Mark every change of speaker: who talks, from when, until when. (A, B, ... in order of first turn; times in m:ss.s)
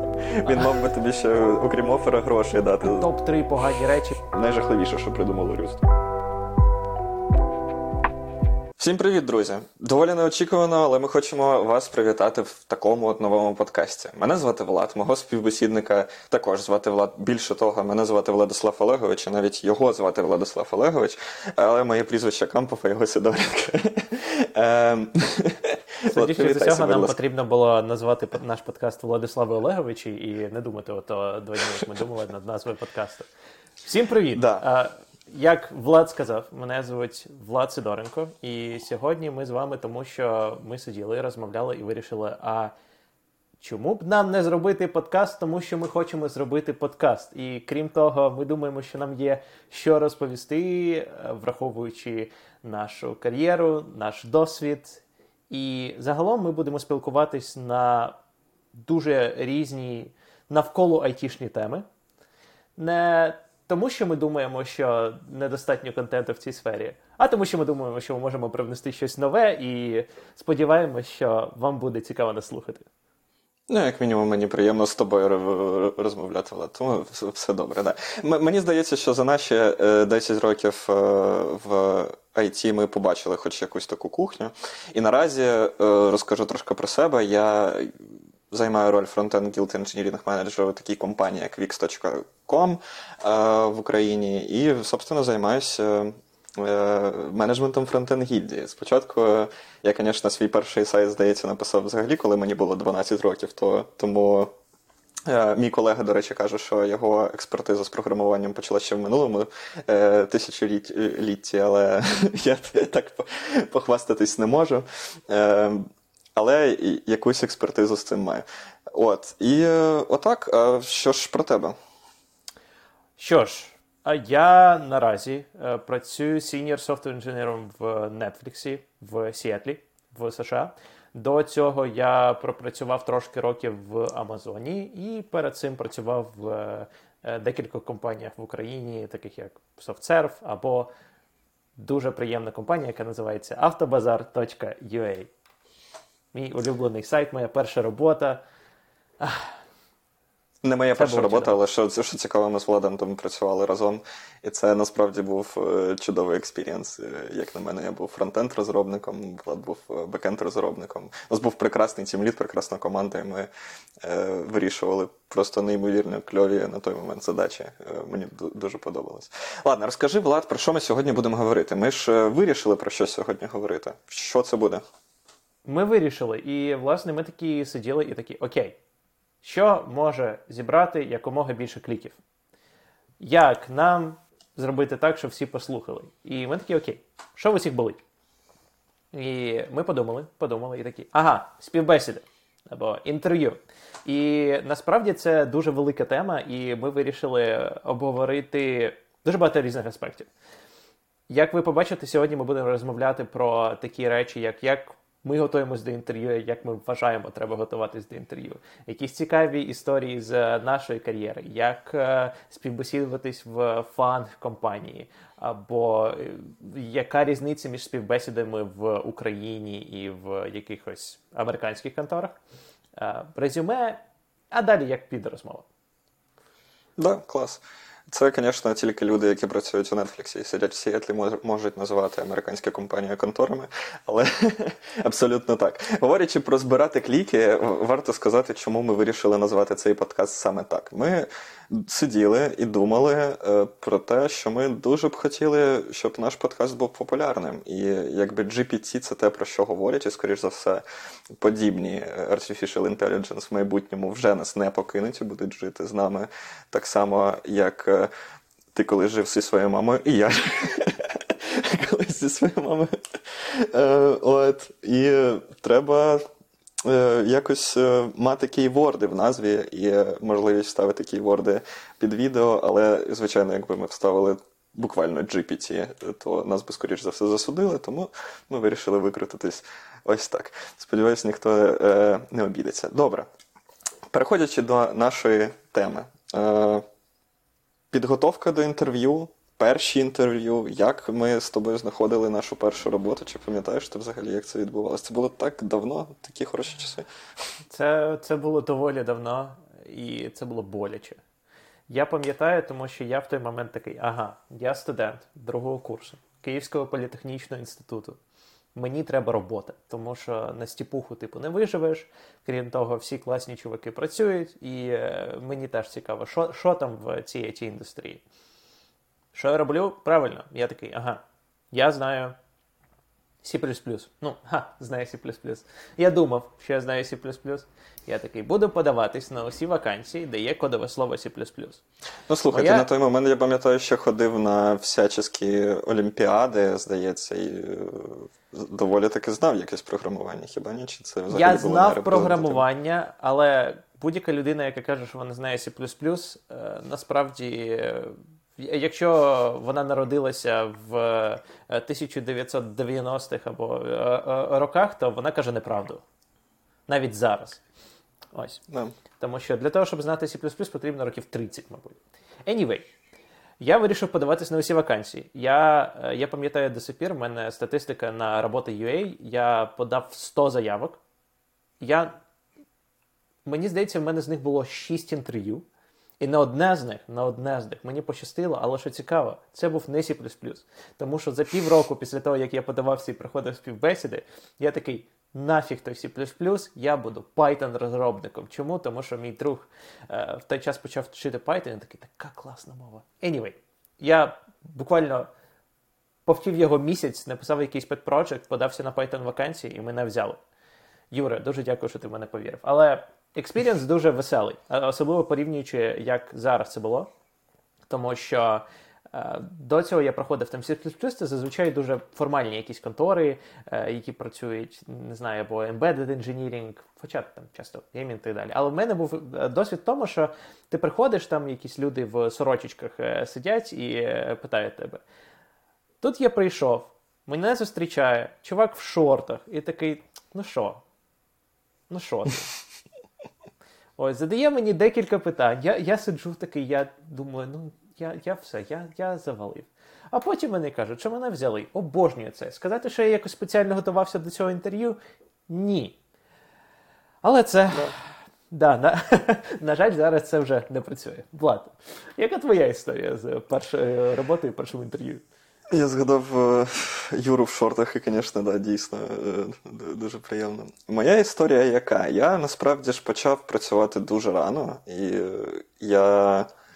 0:00.3-0:03.1 A
0:02.8-0:04.1 B
0:04.3-0:05.8 A
0:08.8-0:27.2 A
0:26.1-0:33.3 B
0:33.8-0:42.7 B
0:34.3-0:34.6 A
0:43.6-0:58.2 B
0:58.7-1:01.8 B
1:02.8-1:12.9 B
1:13.7-1:27.9 A
1:28.5-1:44.5 A
1:45.3-2:01.8 A
2:03.2-2:20.9 B
2:21.8-2:25.3 B
2:26.3-2:28.4 B
2:29.2-2:29.6 B
2:30.6-2:43.5 A
2:31.0-2:31.6 B
2:44.0-2:54.8 A
2:55.6-2:58.8 B
2:59.4-3:02.2 B
3:03.2-3:08.0 B
3:09.1-3:20.3 B
3:21.3-3:42.4 B
3:43.0-3:45.7 B
3:47.0-4:10.8 A
4:11.4-4:18.1 A
4:18.7-4:22.9 A
4:23.5-4:26.2 A
4:26.8-4:43.3 A
4:44.1-4:46.8 A
4:47.9-4:57.1 A
4:57.7-5:01.2 B
5:01.9-5:08.2 B
5:08.8-5:18.2 B
5:19.3-5:22.4 B
5:23.4-5:31.8 B
5:32.3-5:42.6 A
5:32.5-5:32.9 B
5:41.3-5:56.0 B
5:56.9-5:57.6 B
5:58.3-5:58.6 B
5:58.7-5:59.0 A
5:59.2-6:02.9 B
6:03.6-6:11.0 B
6:11.8-6:12.2 B
6:13.4-6:15.7 B
6:16.2-6:35.3 B
6:36.3-6:40.4 B
6:41.1-6:47.1 B
6:47.9-7:05.0 B
7:06.0-7:10.8 B
7:11.9-7:12.5 B
7:14.0-7:26.0 B
7:27.2-7:28.0 B
7:28.5-7:35.2 B
7:35.7-7:46.5 A